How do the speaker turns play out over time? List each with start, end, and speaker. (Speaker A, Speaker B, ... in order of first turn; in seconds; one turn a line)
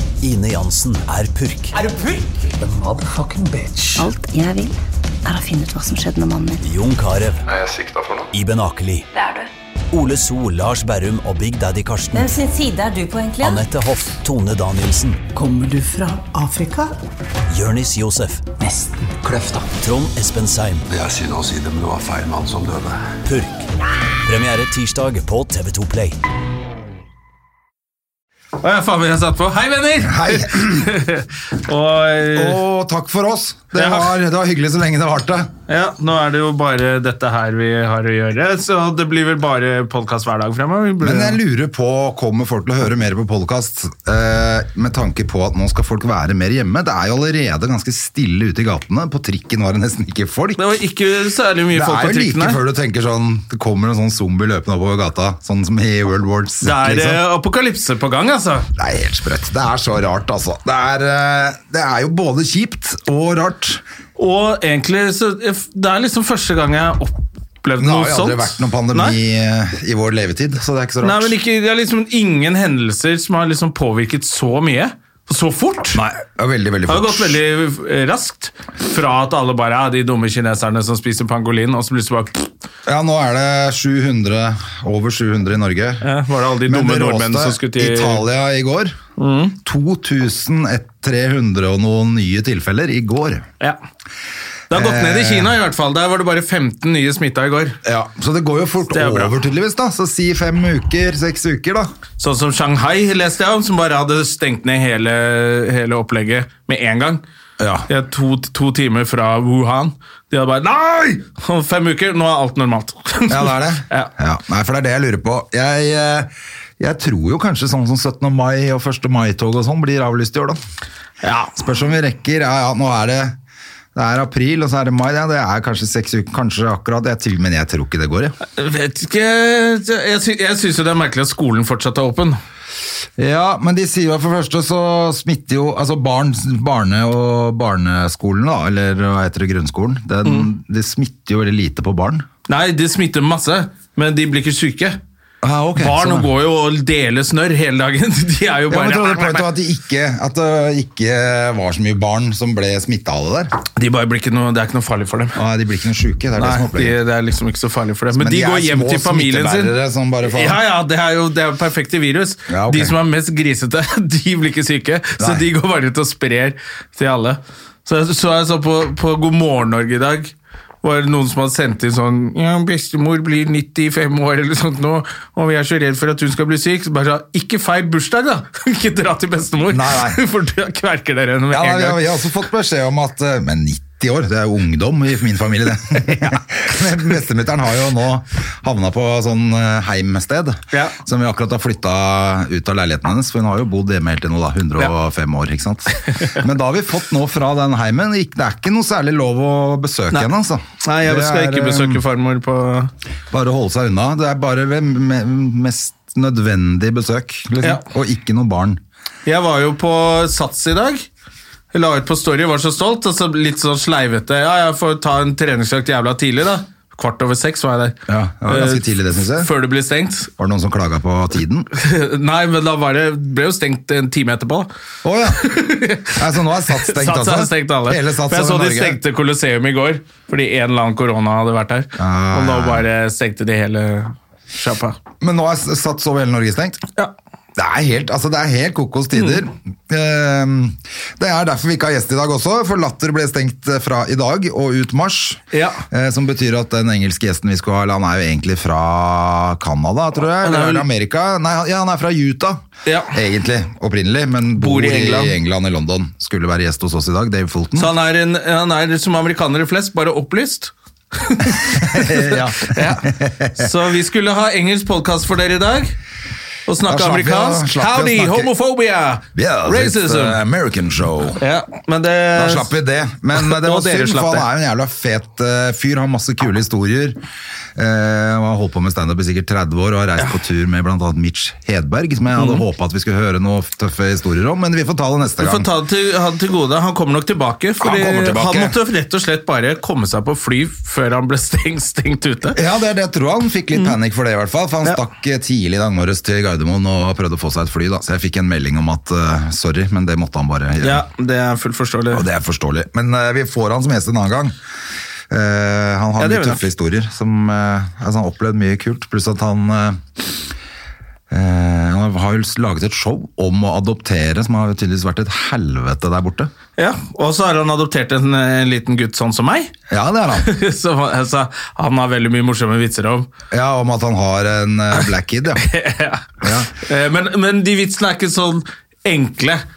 Speaker A: 0.2-1.8
Speaker B: 1.9-2.2
Speaker C: 2.6-4.1
Speaker D: 4.0-6.6
Speaker A: 6.6-7.5
Speaker E: 7.5-8.3
Speaker A: 8.3-9.1
Speaker B: 9.2-9.5
Speaker A: 9.9-12.3
Speaker B: 12.2-13.6
Speaker A: 13.4-15.2
Speaker C: 15.3-16.9
Speaker A: 17.5-18.5
Speaker C: 18.6-19.7
Speaker A: 19.7-20.9
Speaker E: 20.9-23.1
Speaker A: 23.2-23.7
Speaker A: 24.2-26.2
Speaker F: 28.6-32.6
Speaker G: 30.0-30.9
Speaker G: 32.3-35.5
Speaker F: 33.8-34.1
Speaker F: 35.7-41.4
Speaker G: 41.0-50.7
Speaker F: 50.6-52.6
Speaker G: 51.7-57.2
Speaker F: 56.6-58.7
Speaker G: 58.8-63.8
Speaker F: 64.2-69.2
Speaker G: 67.8-71.3
Speaker F: 71.0-76.0
Speaker G: 75.9-77.4
Speaker F: 76.9-82.5
Speaker G: 82.9-86.0
Speaker F: 86.0-88.2
Speaker G: 86.7-89.0
Speaker F: 89.2-89.6
Speaker G: 89.6-93.5
Speaker F: 94.7-97.8
Speaker G: 94.7-95.5
Speaker G: 97.8-101.9
Speaker F: 98.9-99.3
Speaker F: 102.2-107.2
Speaker G: 107.6-107.9
Speaker F: 107.9-114.1
Speaker G: 113.3-120.6
Speaker F: 121.2-121.5
Speaker G: 121.6-123.4
Speaker G: 124.0-128.4
Speaker F: 128.5-132.4
Speaker G: 133.2-142.3
Speaker F: 142.5-145.0
Speaker G: 145.4-146.3
Speaker F: 145.8-149.5
Speaker G: 148.7-153.5
Speaker F: 153.8-155.4
Speaker G: 155.3-157.0
Speaker F: 156.4-182.0
Speaker G: 158.1-160.6
Speaker G: 162.5-163.0
Speaker G: 165.2-165.5
Speaker G: 179.7-180.2
Speaker G: 181.5-202.0
Speaker F: 200.8-202.9
Speaker G: 203.3-208.8
Speaker F: 209.3-211.1
Speaker F: 211.7-220.3
Speaker G: 218.1-219.5
Speaker G: 220.4-221.7
Speaker F: 221.7-224.7
Speaker G: 225.0-225.4
Speaker F: 225.3-235.0
Speaker G: 226.2-229.0
Speaker G: 232.0-232.9
Speaker G: 235.2-236.8
Speaker G: 237.6-257.9
Speaker F: 239.2-239.4
Speaker F: 245.5-245.8
Speaker F: 250.4-250.8
Speaker F: 252.9-253.2
Speaker F: 254.6-255.3
Speaker F: 257.8-265.9
Speaker G: 261.5-263.7
Speaker F: 266.7-270.4
Speaker G: 266.9-268.5
Speaker G: 269.4-271.4
Speaker F: 271.4-272.7
Speaker G: 272.4-277.2
Speaker F: 273.4-274.5
Speaker G: 277.8-285.7
Speaker F: 282.4-282.6
Speaker F: 285.4-292.6
Speaker G: 287.8-288.8
Speaker G: 292.6-301.1
Speaker F: 300.8-302.2
Speaker G: 302.1-304.6
Speaker G: 305.3-310.3
Speaker F: 306.2-306.6
Speaker G: 311.3-316.5
Speaker F: 316.8-319.7
Speaker G: 319.9-320.5
Speaker F: 320.4-323.3
Speaker G: 323.5-325.6
Speaker F: 325.6-329.6
Speaker G: 326.4-326.7